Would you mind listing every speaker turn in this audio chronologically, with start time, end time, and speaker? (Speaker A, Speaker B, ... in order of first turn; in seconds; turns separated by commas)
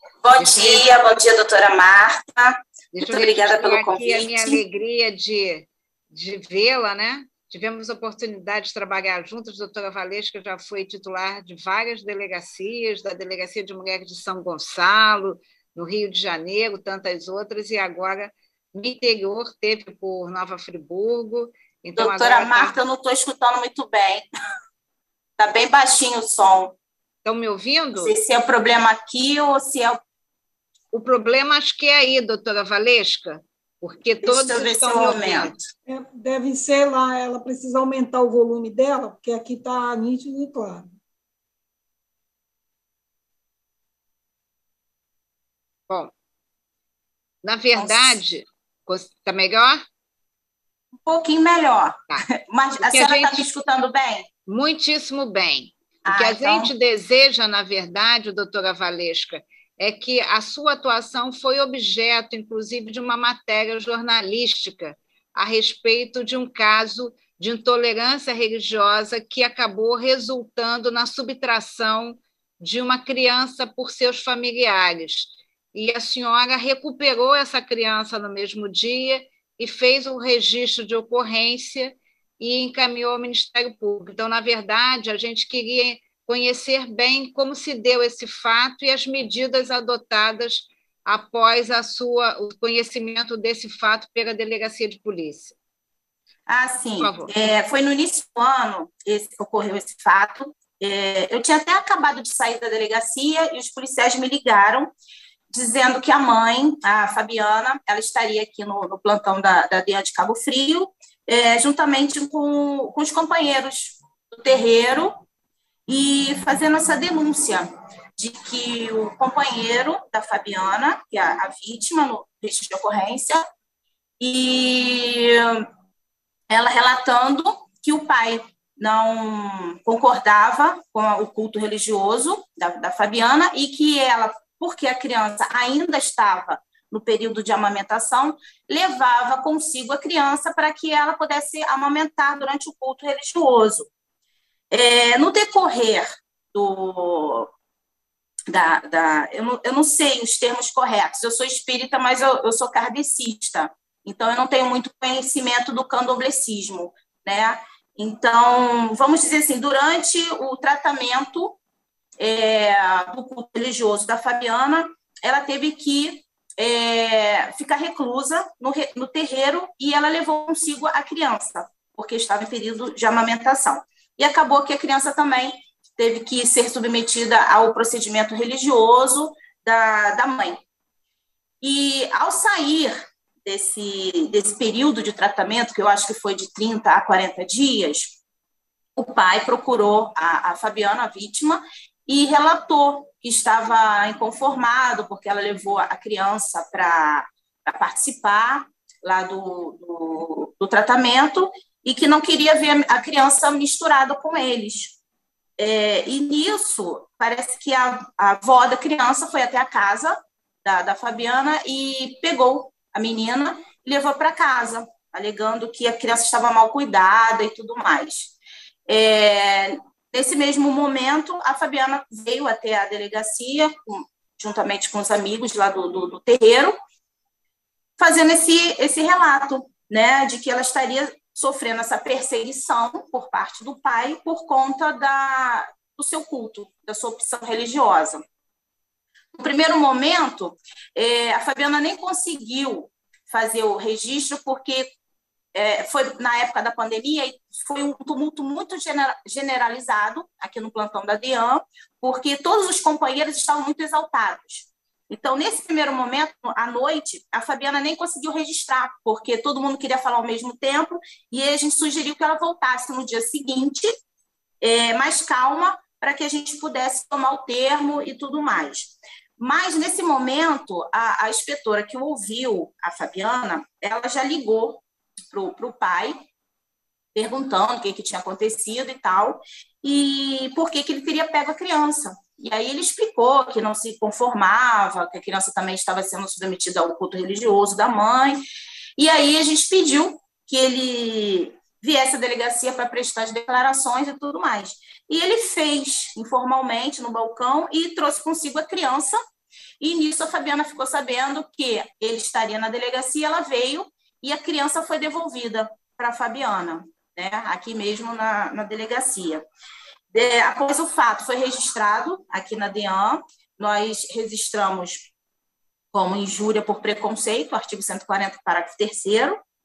Speaker A: 0.2-4.6, Speaker B: 0.4-0.9, Speaker B: 2.9-22.8, Speaker A: 22.0-24.3, Speaker A: 25.4-26.8, Speaker B: 27.2-28.2, Speaker A: 28.0-30.0, Speaker B: 30.9-35.5, Speaker A: 34.2-35.6, Speaker C: 35.9-40.9, Speaker B: 47.4-49.8, Speaker A: 47.8-48.2, Speaker A: 51.0-54.3, Speaker B: 52.8-53.5, Speaker B: 54.5-95.6, Speaker A: 56.0-56.7, Speaker A: 96.5-104.9, Speaker B: 97.0-97.5, Speaker A: 105.5-115.2, Speaker A: 115.9-123.5, Speaker A: 124.2-125.6, Speaker A: 126.5-143.9, Speaker A: 144.7-147.5, Speaker A: 148.5-161.6, Speaker A: 162.2-180.6, Speaker A: 181.6-188.2, Speaker A: 189.0-205.0, Speaker A: 205.6-218.3, Speaker A: 218.9-226.8, Speaker A: 228.0-238.2, Speaker A: 239.4-244.9, Speaker A: 245.6-263.9, Speaker A: 264.6-276.2, Speaker A: 277.1-288.4, Speaker A: 289.0-299.2, Speaker A: 299.8-309.4, Speaker A: 310.1-315.1, Speaker A: 315.9-319.4